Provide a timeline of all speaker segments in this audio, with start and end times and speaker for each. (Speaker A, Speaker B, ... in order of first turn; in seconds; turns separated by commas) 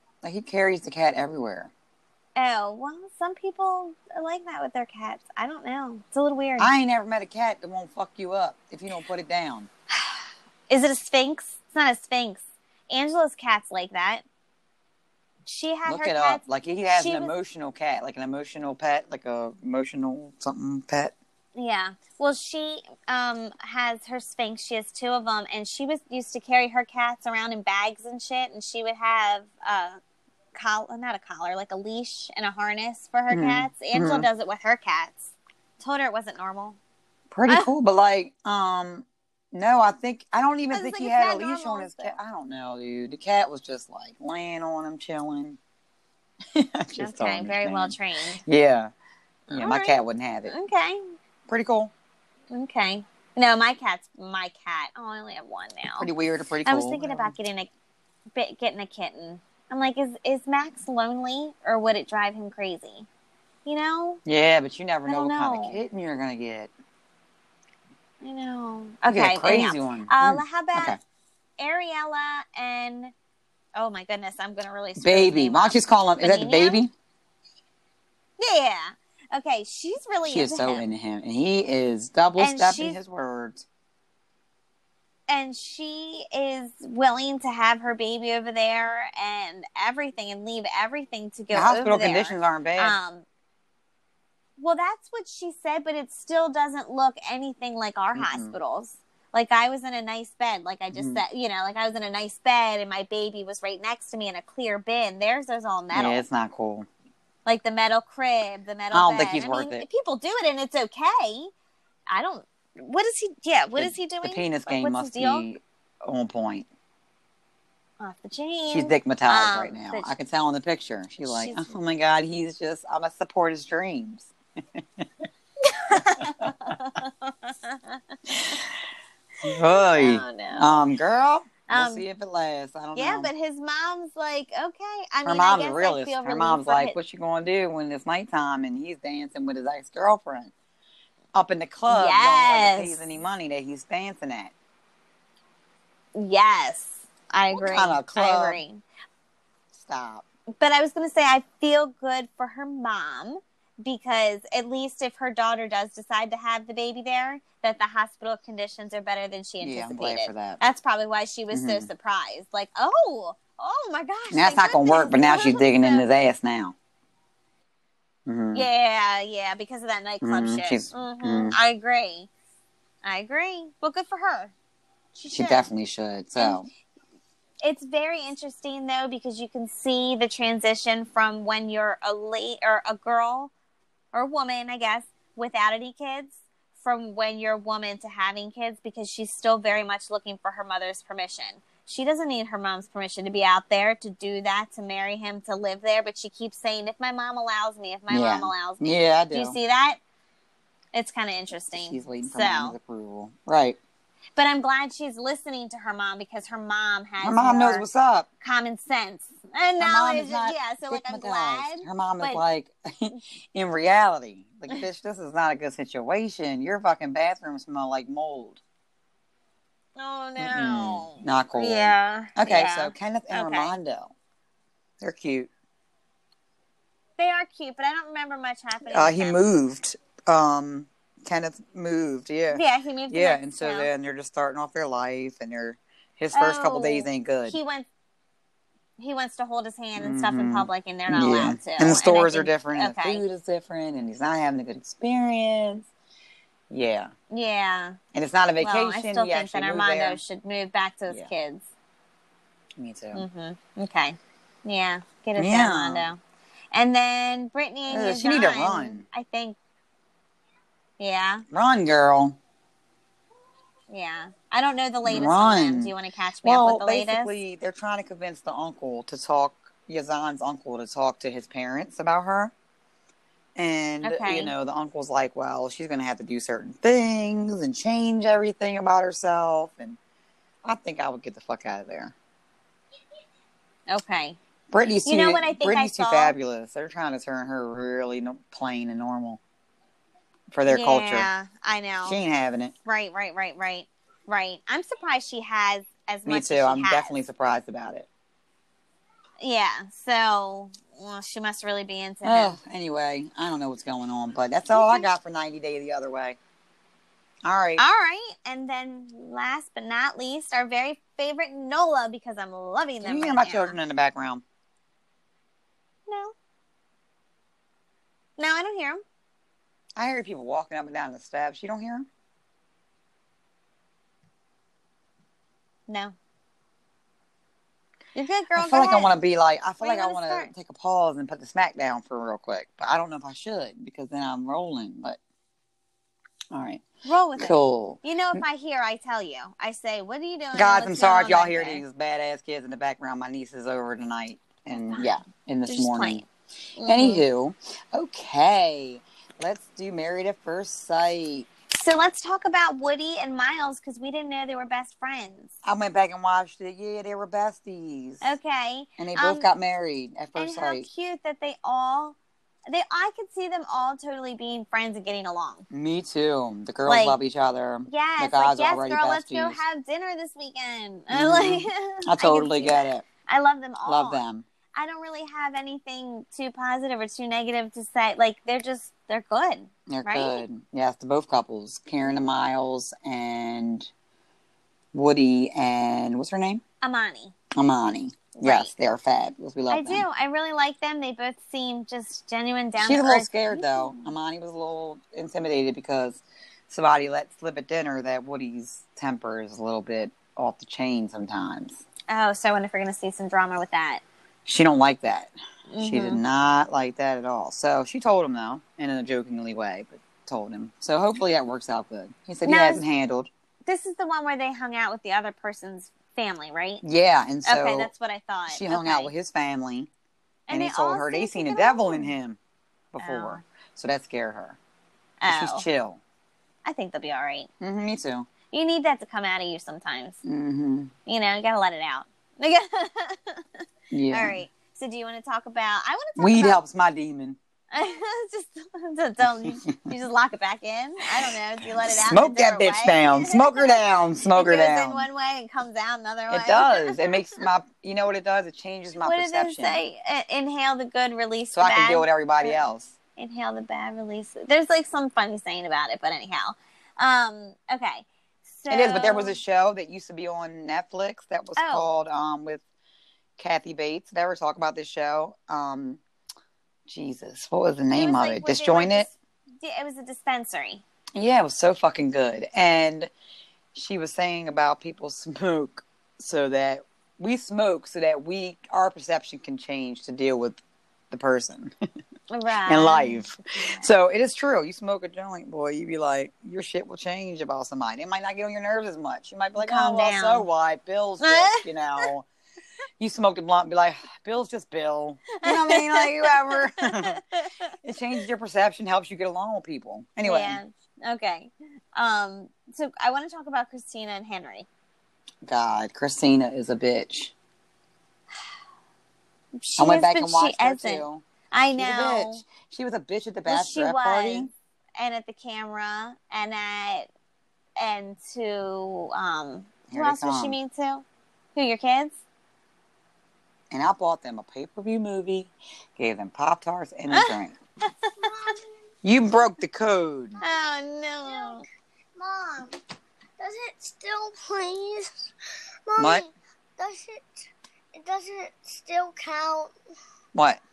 Speaker A: 0.2-1.7, Speaker B: 2.4-6.7, Speaker A: 6.6-9.7, Speaker B: 9.9-14.2, Speaker B: 15.4-16.4, Speaker A: 15.8-21.1, Speaker B: 16.9-17.3, Speaker B: 21.5-30.0, Speaker B: 30.5-36.8, Speaker A: 33.3-34.3, Speaker A: 37.3-45.6, Speaker B: 40.7-42.2, Speaker A: 46.5-48.9, Speaker B: 47.0-48.4, Speaker A: 49.5-50.5, Speaker B: 49.5-51.1, Speaker A: 51.5-51.9, Speaker B: 52.5-56.1, Speaker A: 56.0-57.3, Speaker B: 56.6-57.7, Speaker B: 58.3-63.1, Speaker B: 63.6-64.2, Speaker A: 64.2-66.7, Speaker B: 65.1-65.8, Speaker B: 68.2-71.0, Speaker A: 69.1-71.0, Speaker B: 71.6-73.1, Speaker B: 73.7-76.8, Speaker A: 75.0-76.9, Speaker B: 78.4-80.8, Speaker A: 80.2-83.6, Speaker B: 82.4-83.0, Speaker B: 85.3-93.2, Speaker A: 91.5-93.0, Speaker B: 94.6-106.2, Speaker A: 98.1-98.5, Speaker A: 100.9-101.2, Speaker A: 105.9-106.9, Speaker B: 107.5-111.5, Speaker A: 108.9-109.8, Speaker B: 112.1-115.5, Speaker A: 113.8-116.7, Speaker B: 118.0-120.1, Speaker A: 118.7-125.1, Speaker B: 121.2-121.7, Speaker B: 125.6-128.0, Speaker A: 125.9-126.7, Speaker A: 128.3-128.7, Speaker B: 129.4-130.8, Speaker A: 129.4-133.3, Speaker B: 131.7-132.1, Speaker B: 132.9-136.9, Speaker A: 135.2-140.5, Speaker A: 141.3-144.5, Speaker B: 141.9-143.1, Speaker B: 146.1-148.8, Speaker A: 147.5-148.6, Speaker A: 149.7-150.2, Speaker B: 150.6-166.0, Speaker A: 159.6-160.6, Speaker A: 161.5-161.9, Speaker A: 164.3-166.7, Speaker A: 168.2-168.7, Speaker B: 168.5-172.3, Speaker A: 170.2-171.6, Speaker B: 173.0-174.5, Speaker B: 175.1-175.7, Speaker A: 175.3-176.7, Speaker B: 176.4-176.6, Speaker B: 177.6-183.5, Speaker B: 184.1-200.0, Speaker A: 198.1-199.6, Speaker B: 200.9-202.8, Speaker A: 201.7-203.8, Speaker B: 204.4-207.8, Speaker A: 207.2-208.3, Speaker B: 208.4-212.4, Speaker A: 209.8-218.6, Speaker B: 220.0-223.8, Speaker A: 220.4-224.1, Speaker A: 225.0-225.5, Speaker B: 227.2-229.4, Speaker A: 228.8-237.6, Speaker B: 232.5-233.9, Speaker B: 236.3-237.9, Speaker B: 239.0-243.2, Speaker A: 240.0-245.9, Speaker A: 246.7-247.1, Speaker B: 247.3-248.0, Speaker A: 248.1-250.2, Speaker B: 248.6-251.6, Speaker A: 252.8-253.2, Speaker B: 253.1-256.2, Speaker A: 255.4-256.1, Speaker B: 256.7-259.6, Speaker A: 257.9-259.0, Speaker B: 261.0-261.4, Speaker A: 261.5-262.4, Speaker B: 263.9-267.3, Speaker A: 265.0-272.5, Speaker A: 273.6-280.0, Speaker B: 274.0-274.5, Speaker A: 280.6-282.1, Speaker B: 283.9-284.4, Speaker A: 284.7-289.4, Speaker B: 285.1-286.4, Speaker A: 290.5-291.3, Speaker B: 290.7-292.2, Speaker A: 292.0-292.7, Speaker B: 292.8-297.1, Speaker A: 296.2-298.1, Speaker B: 299.4-302.6, Speaker A: 302.2-306.4, Speaker B: 304.7-305.1, Speaker A: 307.4-307.8, Speaker B: 307.8-313.8, Speaker A: 313.0-314.4, Speaker B: 316.1-316.3, Speaker B: 318.4-319.0, Speaker A: 319.9-322.1, Speaker B: 325.9-326.1, Speaker B: 328.1-329.1, Speaker A: 328.5-335.2, Speaker B: 329.8-330.5, Speaker A: 336.5-336.8, Speaker B: 337.0-341.8, Speaker A: 337.4-338.4, Speaker A: 340.5-346.2, Speaker B: 345.7-346.2, Speaker B: 346.8-347.2, Speaker A: 346.8-351.5, Speaker B: 351.7-355.5, Speaker A: 355.6-358.3, Speaker B: 358.2-359.5, Speaker A: 359.0-360.9, Speaker B: 360.4-362.2, Speaker B: 362.7-365.6, Speaker A: 365.7-369.6, Speaker B: 366.9-367.2, Speaker B: 367.9-374.2, Speaker A: 371.1-373.0, Speaker A: 373.8-374.4, Speaker B: 374.7-380.4, Speaker A: 379.9-383.9, Speaker A: 384.9-386.6, Speaker B: 386.8-387.3, Speaker A: 387.5-390.1, Speaker B: 388.4-388.7, Speaker B: 389.7-394.1, Speaker A: 392.8-401.8, Speaker B: 402.1-404.0, Speaker A: 404.4-413.3, Speaker B: 405.7-406.2, Speaker B: 412.4-412.8, Speaker B: 413.6-416.8, Speaker A: 416.8-417.9, Speaker B: 417.4-419.1, Speaker A: 418.5-419.9, Speaker B: 420.5-422.1, Speaker A: 420.5-422.4, Speaker A: 422.9-424.6, Speaker B: 423.0-423.4, Speaker B: 425.2-425.6, Speaker A: 425.3-426.0, Speaker B: 426.6-427.5, Speaker A: 427.6-428.3, Speaker B: 428.5-430.2, Speaker A: 430.2-430.9, Speaker B: 431.1-436.6, Speaker A: 433.9-434.4, Speaker A: 436.2-437.4, Speaker B: 437.7-447.1, Speaker A: 439.2-439.7, Speaker A: 441.1-445.1, Speaker A: 446.3-449.8, Speaker B: 449.0-452.6, Speaker A: 451.5-452.9, Speaker B: 453.1-459.4, Speaker A: 458.7-462.6, Speaker B: 461.6-461.9, Speaker A: 463.4-466.0, Speaker A: 466.9-469.1, Speaker B: 467.9-470.8, Speaker A: 471.1-473.1, Speaker A: 473.7-480.6, Speaker A: 481.1-481.7, Speaker B: 482.3-483.8, Speaker A: 482.6-492.2, Speaker B: 489.6-490.5, Speaker B: 491.2-492.1, Speaker A: 493.0-497.2, Speaker B: 495.3-497.7, Speaker A: 497.8-500.6, Speaker B: 500.2-504.7, Speaker A: 505.4-507.3, Speaker B: 509.6-512.4, Speaker A: 509.8-511.2, Speaker A: 511.7-514.5, Speaker B: 513.5-517.1, Speaker B: 517.8-522.2, Speaker A: 519.9-520.5, Speaker A: 523.7-527.6, Speaker C: 528.2-528.6, Speaker A: 529.0-530.4, Speaker C: 530.4-531.6, Speaker B: 530.4-531.6, Speaker C: 532.1-532.8, Speaker C: 533.4-535.1, Speaker C: 535.9-537.4, Speaker A: 536.0-536.2, Speaker C: 537.9-539.7, Speaker A: 540.3-540.6